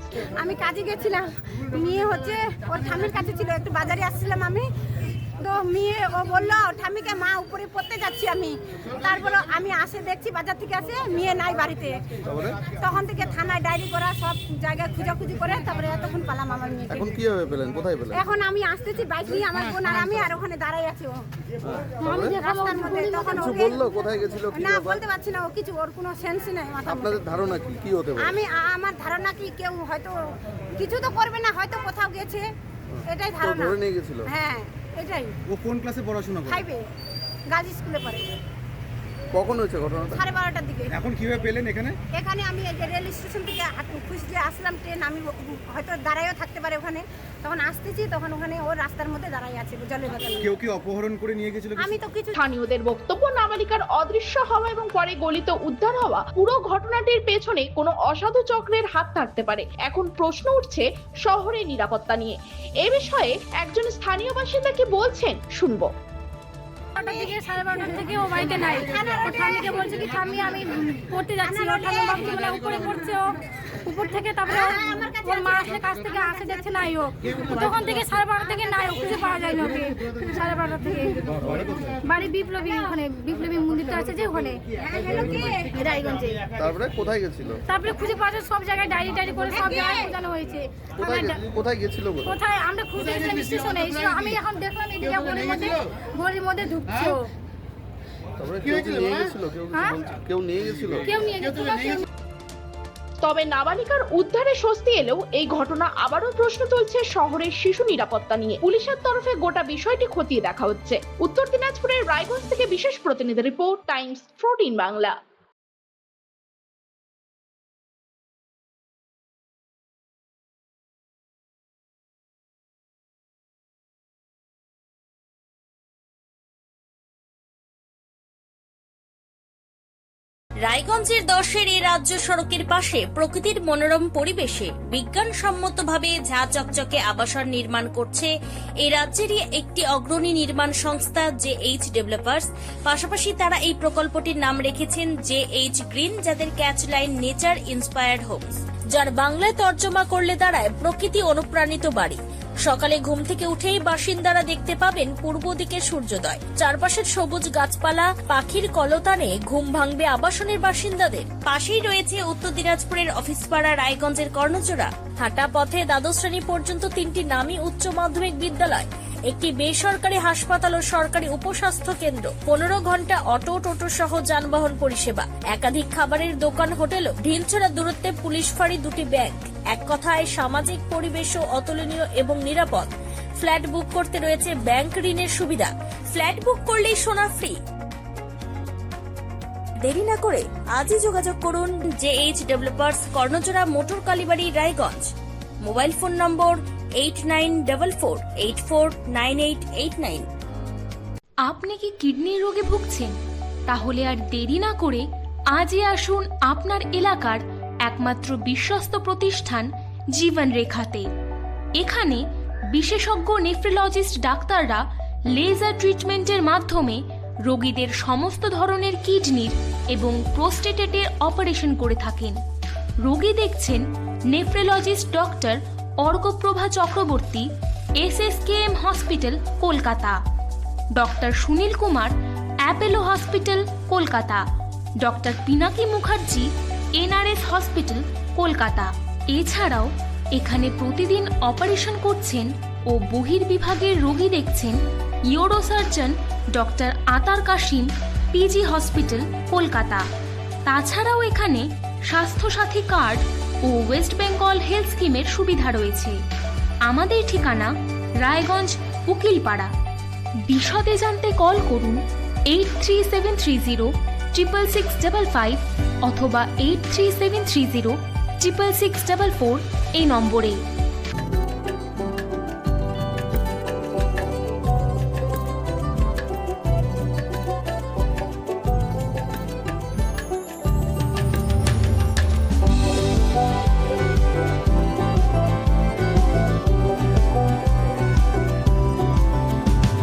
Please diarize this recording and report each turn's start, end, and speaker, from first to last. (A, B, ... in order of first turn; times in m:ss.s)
0:00.4-0:04.6 A
0:05.4-0:12.0 A
0:12.2-0:12.6 B
0:12.8-0:17.0 A
0:16.9-0:18.2 B
0:18.1-0:21.2 A
0:21.6-0:22.4 B
0:22.0-0:23.7 C
0:22.3-0:23.7 A
0:23.3-0:25.0 B
0:24.5-0:27.3 A
0:26.8-0:28.4 B
0:28.2-0:30.2 A
0:30.8-0:32.5 A
0:32.9-0:34.3 B
0:33.1-0:35.3 A
0:35.5-0:36.6 D
0:36.4-0:36.8 A
0:37.5-0:38.3 A
0:39.3-0:40.2 B
0:40.1-0:40.9 A
0:41.0-0:41.9 D
0:42.1-0:50.5 A
0:50.4-0:51.8 D
0:51.8-0:52.4 A
0:52.3-1:05.9 E
1:07.0-1:10.3 A
1:07.3-1:13.2 C
1:11.4-1:13.0 A
1:13.9-1:14.6 C
1:14.3-1:16.9 A
1:15.3-1:21.1 C
1:18.3-1:19.4 A
1:22.0-1:24.6 C
1:24.7-1:25.7 A
1:25.7-1:26.3 C
1:26.4-1:27.6 B
1:27.7-1:31.3 C
1:29.5-1:30.2 A
1:30.9-1:32.4 B
1:32.3-1:37.2 C
1:38.4-1:41.2 B
1:41.1-1:42.0 C
1:43.2-1:55.2 E
2:10.6-2:18.3 F
2:18.8-3:07.6 F
3:09.8-3:15.1 F
3:15.6-3:20.3 F
3:21.4-3:23.1 G
3:23.7-3:31.1 G
3:31.8-3:42.4 G
3:43.0-3:50.2 G
3:51.0-3:54.4 G
3:55.0-4:04.8 G
4:05.3-4:10.0 G
4:10.6-4:16.2 G
4:16.8-4:19.7 G
4:20.5-4:22.0 G
4:22.5-4:30.6 G